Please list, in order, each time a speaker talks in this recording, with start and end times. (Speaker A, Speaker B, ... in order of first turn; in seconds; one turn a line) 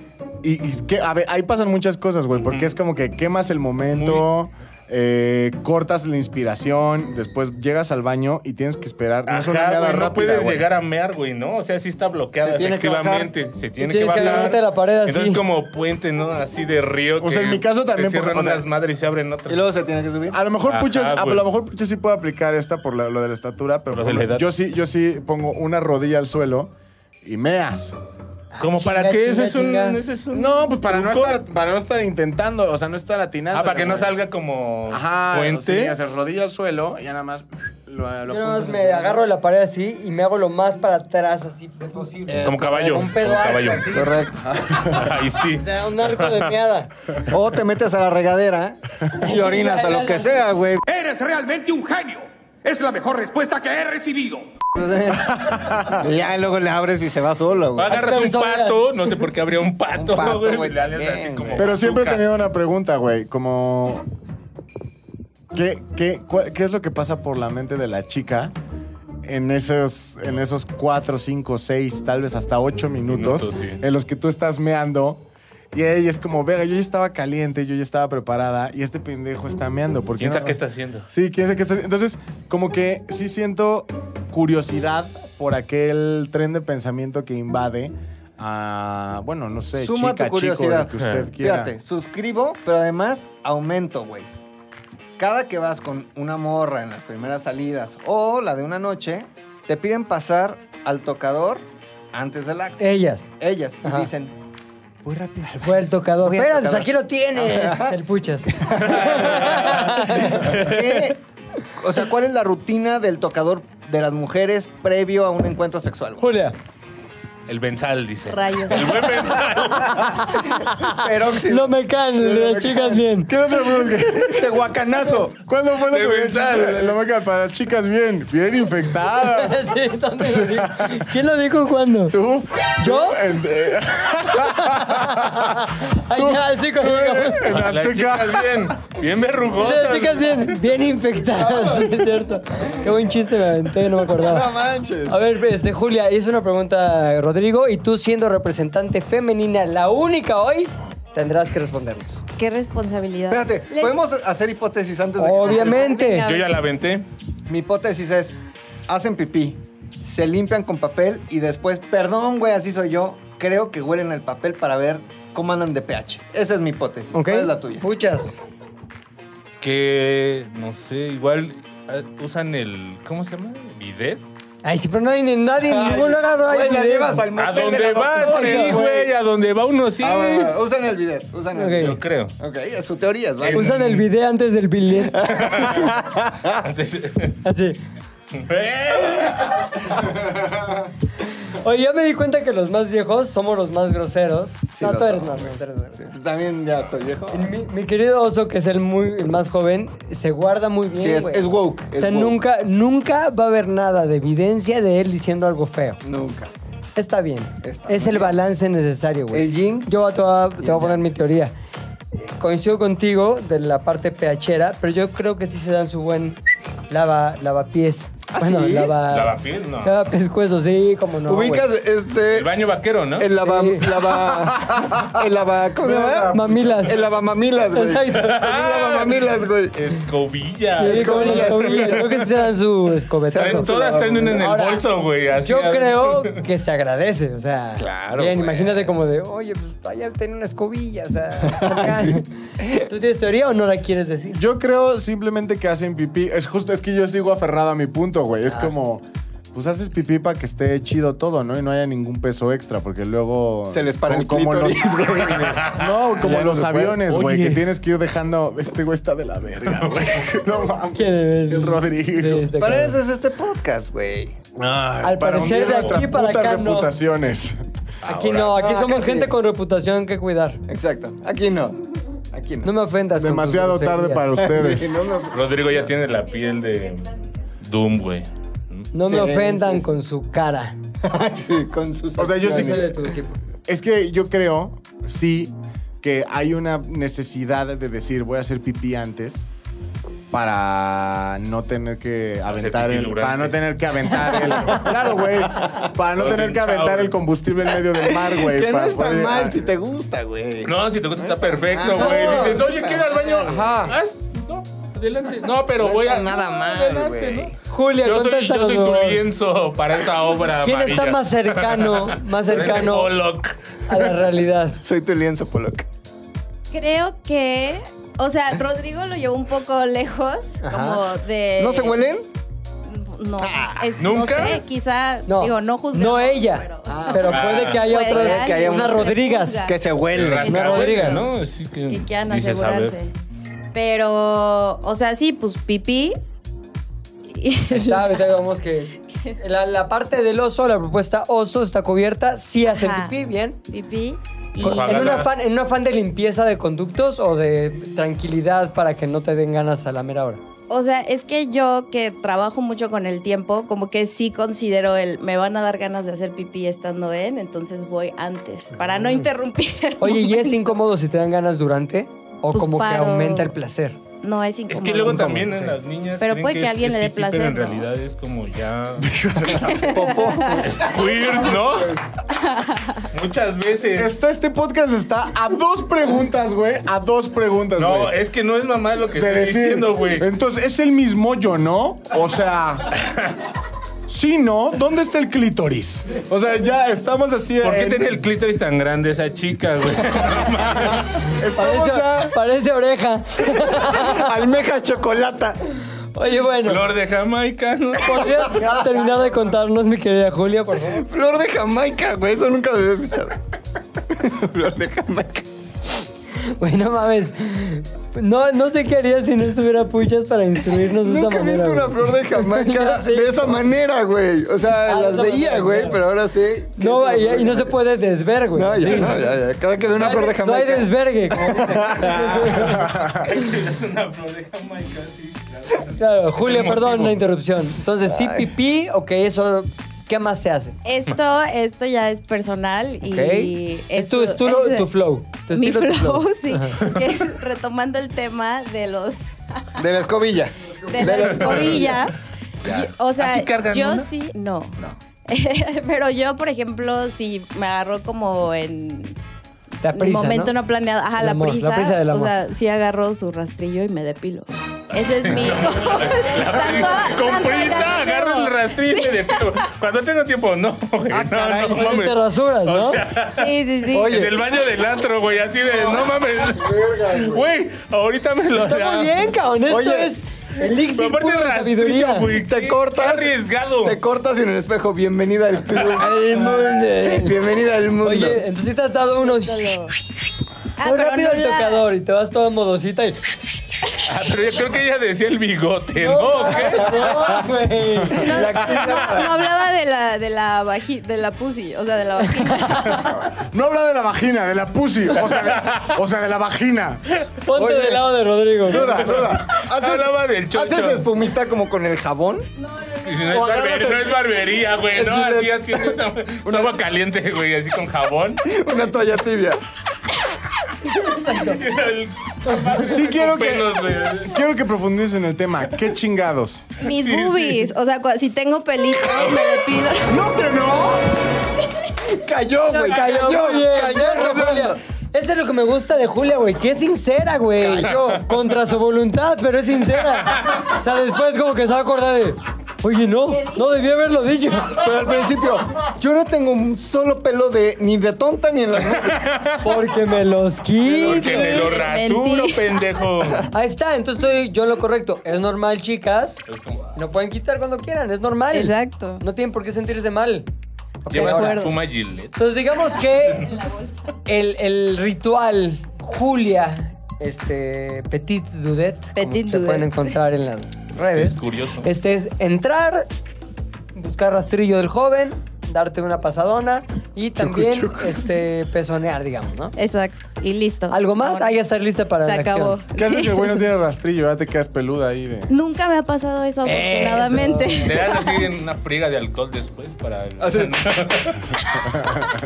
Speaker A: 0.4-10.6
Speaker B: 3.9-4.3
Speaker B: 9.3-19.6
Speaker C: 12.4-13.3
Speaker D: 13.8-15.4
Speaker A: 17.2-18.6
Speaker C: 19.5-20.4
Speaker A: 20.3-27.9
Speaker B: 20.6-21.4
Speaker B: 23.9-24.5
Speaker D: 28.5-30.0
Speaker B: 28.6-31.4
Speaker A: 30.3-34.1
Speaker B: 33.5-36.0
Speaker A: 34.9-39.2
Speaker D: 38.3-44.2
Speaker C: 42.3-44.5
Speaker B: 42.4-44.1
Speaker A: 44.4-45.1
Speaker B: 44.7-46.5
Speaker D: 45.6-46.9
Speaker C: 47.3-50.8
Speaker D: 49.2-50.4
Speaker E: 50.9-54.4
Speaker C: 54.7-57.9
Speaker A: 55.2-56.0
Speaker B: 57.7-62.2
Speaker D: 57.9-58.9
Speaker C: 59.9-61.7
Speaker A: 61.5-64.0
Speaker A: 65.5-68.5
Speaker A: 69.2-80.6
Speaker B: 73.1-73.8
Speaker B: 80.2-81.1
Speaker A: 81.1-91.7
Speaker C: 89.8-94.3
Speaker C: 95.2-102.9
Speaker D: 102.8-103.3
Speaker C: 103.4-104.3
Speaker D: 103.8-104.1
Speaker C: 105.0-108.0
Speaker D: 105.6-110.5
Speaker C: 108.5-111.2
Speaker B: 108.8-111.1
Speaker C: 111.8-116.2
Speaker D: 116.2-116.5
Speaker B: 117.5-120.3
Speaker F: 118.3-119.2
Speaker C: 119.8-123.0
Speaker D: 120.3-123.3
Speaker A: 123.2-124.6
Speaker C: 123.7-125.4
Speaker A: 125.3-131.1
Speaker B: 125.9-126.9
Speaker D: 129.3-132.2
Speaker A: 132.1-138.8
Speaker D: 132.8-133.2
Speaker D: 134.6-137.5
Speaker B: 137.4-140.5
Speaker D: 139.6-144.5
Speaker C: 141.4-141.9
Speaker C: 144.1-145.2
Speaker D: 145.1-152.2
Speaker F: 152.4-153.9
Speaker C: 153.3-156.0
Speaker D: 155.2-156.3
Speaker F: 155.5-156.6
Speaker B: 156.2-157.1
Speaker C: 157.5-158.4
Speaker C: 158.9-167.8
Speaker D: 167.1-168.3
Speaker B: 169.6-174.2
Speaker D: 174.6-177.2
Speaker C: 175.6-179.1
Speaker B: 177.3-180.6
Speaker D: 178.2-178.8
Speaker C: 180.0-183.7
Speaker D: 181.5-182.0
Speaker B: 181.8-182.3
Speaker B: 183.4-184.1
Speaker D: 183.5-185.2
Speaker C: 185.0-186.7
Speaker B: 185.3-186.0
Speaker B: 186.6-187.4
Speaker D: 187.4-187.8
Speaker B: 188.3-189.8
Speaker D: 191.5-196.1
Speaker C: 194.8-197.5
Speaker D: 197.3-206.0
Speaker C: 200.9-202.4
Speaker C: 206.0-206.5
Speaker D: 206.9-211.5
Speaker C: 207.6-208.4
Speaker C: 209.3-209.9
Speaker C: 210.6-211.0
Speaker D: 212.2-216.4
Speaker D: 216.9-221.7
Speaker C: 218.3-218.9
Speaker B: 219.1-219.9
Speaker C: 221.2-222.6
Speaker B: 222.3-223.3
Speaker C: 223.2-229.8
Speaker D: 223.4-223.9
Speaker A: 224.3-225.2
Speaker A: 225.8-227.0
Speaker D: 226.3-227.0
Speaker D: 227.7-228.4
Speaker B: 228.1-232.4
Speaker D: 230.8-234.8
Speaker C: 230.8-232.0
Speaker C: 233.3-234.5
Speaker B: 233.3-236.4
Speaker D: 235.4-244.4
Speaker B: 237.8-238.8
Speaker C: 241.4-242.8
Speaker A: 244.3-262.5
Speaker C: 253.7-257.0
Speaker B: 257.1-257.6
Speaker D: 260.9-263.0
Speaker C: 262.5-264.4
Speaker A: 264.6-267.6
Speaker D: 265.0-267.0
Speaker B: 268.0-268.6
Speaker D: 268.0-270.6
Speaker C: 268.5-269.3
Speaker C: 270.7-271.8
Speaker C: 272.3-272.7
Speaker D: 272.6-274.4
Speaker A: 273.1-275.0
Speaker C: 274.4-275.4
Speaker B: 275.3-278.9
Speaker D: 278.9-280.7
Speaker C: 279.0-279.9
Speaker C: 281.0-283.1
Speaker A: 282.2-282.9
Speaker D: 282.4-283.4
Speaker A: 283.7-289.4
Speaker A: 290.3-299.7
Speaker B: 292.5-293.7
Speaker B: 296.1-297.1
Speaker C: 297.9-303.8
Speaker B: 300.6-313.8
Speaker D: 302.0-302.6
Speaker A: 303.5-304.0
Speaker C: 305.8-307.5
Speaker D: 307.7-309.2
Speaker D: 310.6-313.1
Speaker D: 313.9-314.8
Speaker C: 314.8-315.9
Speaker F: 316.7-322.1
Speaker C: 320.7-320.9
Speaker D: 320.7-321.0
Speaker C: 321.6-322.2
Speaker F: 322.9-329.8
Speaker C: 323.4-323.9
Speaker B: 324.0-324.6
Speaker D: 325.3-329.7
Speaker C: 326.9-330.8
Speaker B: 327.2-327.8
Speaker B: 330.1-332.9
Speaker F: 330.4-331.3
Speaker D: 330.4-331.3
Speaker F: 331.9-333.1
Speaker F: 333.7-336.1
Speaker F: 337.3-338.3
Speaker D: 337.7-343.6
Speaker F: 342.7-343.1
Speaker F: 343.7-345.2
Speaker B: 344.6-345.3
Speaker D: 344.6-350.4
Speaker F: 350.7-360.7
Speaker D: 360.0-364.0
Speaker F: 362.5-363.5
Speaker F: 364.2-365.3
Speaker B: 364.7-369.1
Speaker D: 365.0-365.7
Speaker F: 366.2-367.9
Speaker A: 369.0-369.9
Speaker F: 369.7-370.6
Speaker C: 369.9-370.8
Speaker B: 370.6-372.0
Speaker F: 372.3-373.0
Speaker B: 373.1-374.1
Speaker A: 373.9-378.1
Speaker B: 377.8-380.3
Speaker A: 379.1-382.9
Speaker A: 384.1-388.2
Speaker B: 387.6-391.2
Speaker C: 391.4-392.3
Speaker A: 391.4-392.2
Speaker D: 391.6-394.3
Speaker C: 393.5-395.6
Speaker D: 396.1-396.8
Speaker B: 396.6-398.4
Speaker D: 398.0-401.0
Speaker C: 398.4-399.1
Speaker C: 400.9-403.4
Speaker C: 404.1-405.4
Speaker D: 406.4-413.4
Speaker C: 411.0-417.7
Speaker D: 414.8-416.0
Speaker D: 416.8-419.1
Speaker C: 418.5-422.6
Speaker D: 420.0-422.7
Speaker B: 421.6-427.2
Speaker A: 422.6-423.2
Speaker D: 425.9-430.8
Speaker C: 428.1-428.5
Speaker F: 430.8-434.9
Speaker D: 433.0-436.8
Speaker F: 435.5-439.7
Speaker C: 439.8-442.1
Speaker F: 440.9-449.1
Speaker B: 441.1-441.9
Speaker B: 442.7-444.1
Speaker D: 449.8-450.5
Speaker F: 449.9-459.0
Speaker D: 451.2-452.3
Speaker B: 455.0-469.2
Speaker C: 461.1-462.0
Speaker D: 461.7-463.0
Speaker F: 463.3-464.2
Speaker C: 463.9-464.4
Speaker C: 465.7-467.4
Speaker D: 468.6-472.3
Speaker C: 469.7-470.1
Speaker B: 470.9-474.0
Speaker C: 472.3-478.4
Speaker D: 475.9-477.4
Speaker D: 478.0-479.7
Speaker F: 479.3-479.9
Speaker F: 480.8-481.9
Speaker D: 480.8-483.2
Speaker B: 484.0-487.1
Speaker D: 485.9-488.3
Speaker C: 486.9-487.4
Speaker C: 488.1-489.5
Speaker F: 488.1-493.2
Speaker B: 488.7-489.0
Speaker A: 493.3-497.0
Speaker B: 495.3-495.9
Speaker D: 497.4-498.9
Speaker C: 497.5-498.1
Speaker C: 498.6-502.5
Speaker A: 498.7-499.2
Speaker B: 498.9-501.1
Speaker F: 502.7-503.1
Speaker B: 503.0-508.4
Speaker C: 503.3-504.2
Speaker C: 504.9-506.7
Speaker C: 508.4-509.6
Speaker D: 511.0-511.6
Speaker B: 511.3-514.4
Speaker A: 512.8-516.8
Speaker F: 516.8-520.2
Speaker B: 516.8-517.7
Speaker B: 519.1-519.7
Speaker A: 520.1-521.0
Speaker C: 522.0-524.8
Speaker D: 522.7-534.9
Speaker C: 527.6-528.3
Speaker B: 527.8-528.1
Speaker B: 530.3-530.6
Speaker C: 534.8-539.3
Speaker B: 539.1-539.6
Speaker D: 539.6-541.7
Speaker B: 540.9-543.5
Speaker C: 540.9-541.3
Speaker F: 541.2-542.7
Speaker D: 543.5-546.4
Speaker B: 546.5-546.9
Speaker D: 546.9-550.5
Speaker F: 548.5-549.2
Speaker D: 551.0-551.6
Speaker B: 551.1-552.4
Speaker F: 551.1-551.8
Speaker D: 552.3-553.6
Speaker B: 553.2-553.5
Speaker D: 554.2-563.1
Speaker F: 559.1-560.0
Speaker B: 561.0-561.9
Speaker D: 563.9-569.7
Speaker A: 567.4-568.2
Speaker F: 569.8-571.6
Speaker D: 570.9-572.8
Speaker F: 572.2-573.5
Speaker A: 572.9-575.5
Speaker F: 575.5-578.2
Speaker D: 576.6-577.9
Speaker B: 577.8-582.0
Speaker C: 580.4-580.7
Speaker A: 582.0-582.2